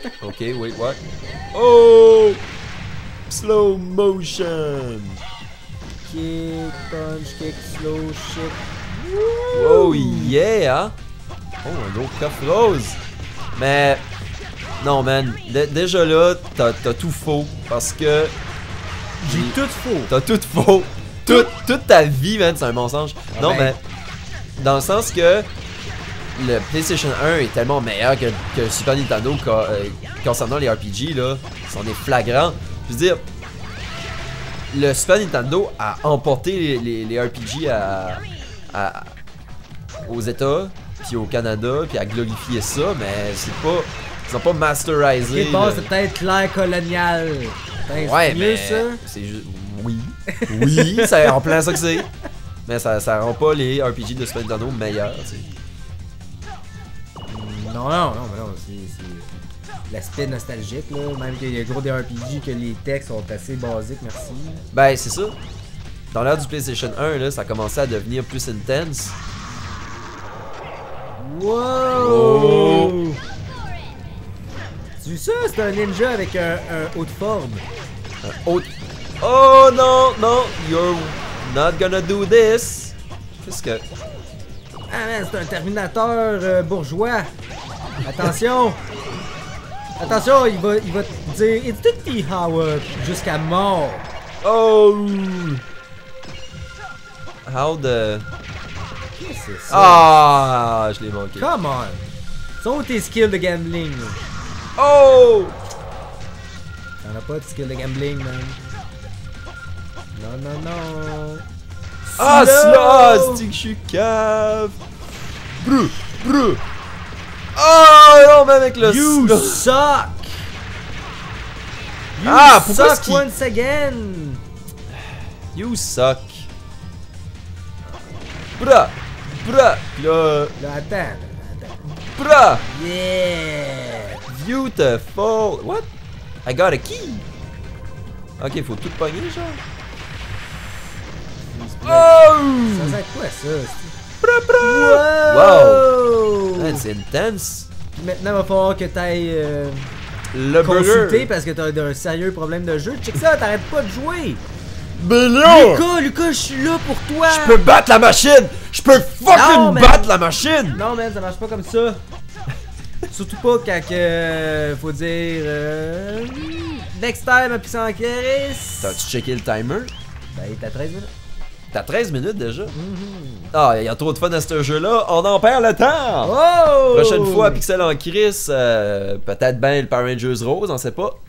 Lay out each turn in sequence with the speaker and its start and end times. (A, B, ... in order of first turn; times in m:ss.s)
0:00.2-0:01.0 A
0:01.5-0:02.4 A
0:03.3-0:05.2 A
0:06.0-0:10.3 B
0:09.5-0:10.9 A
0:11.6-0:13.0 A
0:13.5-0:14.0 A
0:14.8-0:18.3 A
0:19.2-0:20.1 B
0:19.2-0:23.8 A
0:23.3-0:23.7 B
0:24.6-0:25.5 A
0:26.3-0:33.2 A
0:34.7-0:39.1 A
0:40.0-0:45.9 A
0:45.2-0:49.0 B
0:47.9-0:52.1 A
0:50.4-0:51.8 B
0:52.6-0:55.5 A
0:57.3-0:59.3 B
0:59.9-1:04.6 B
1:04.7-1:05.4 A
1:06.1-1:09.2 A
1:11.2-1:13.2 B
1:11.9-1:13.0 A
1:15.0-1:17.6 B
1:18.2-1:18.7 A
1:19.2-1:23.8 A
1:24.9-1:27.3 B
1:28.0-1:28.8 B
1:30.0-1:34.1 B
1:34.4-1:35.6 A
1:37.4-1:38.3 A
1:39.2-1:40.1 B
1:39.7-1:41.5 A
1:41.4-1:44.2 B
1:44.8-1:45.6 A
1:47.0-1:48.6 B
1:50.1-1:51.4 B
1:52.1-1:53.4 B
1:52.2-1:54.8 A
1:55.6-1:56.6 A
1:57.5-1:59.7 A
1:58.8-2:00.5 B
2:02.2-2:04.4 B
2:02.2-2:03.2 A
2:05.5-2:06.5 A
2:08.6-2:10.6 A
2:10.6-2:11.9 B
2:12.1-2:12.6 A
2:12.6-2:14.2 B
2:14.3-2:15.9 A
2:16.4-2:17.2 A
2:18.4-2:19.6 A
2:21.5-2:23.9 B
2:21.8-2:23.0 A
2:24.2-2:25.9 A
2:24.6-2:26.8 B
2:26.5-2:27.7 A
2:28.0-2:29.9 B
2:30.3-2:31.3 A
2:30.6-2:34.4 B
2:34.9-2:35.9 A
2:35.4-2:37.6 B
2:37.2-2:40.8 A
2:39.2-2:40.2 B
2:40.7-2:42.0 B
2:43.1-2:49.0 B
2:48.8-2:49.9 A
2:50.3-2:51.1 B
2:51.7-2:52.8 A
2:52.7-2:53.5 B
2:53.5-2:56.3 A
2:56.2-2:57.6 B
2:56.9-3:01.2 A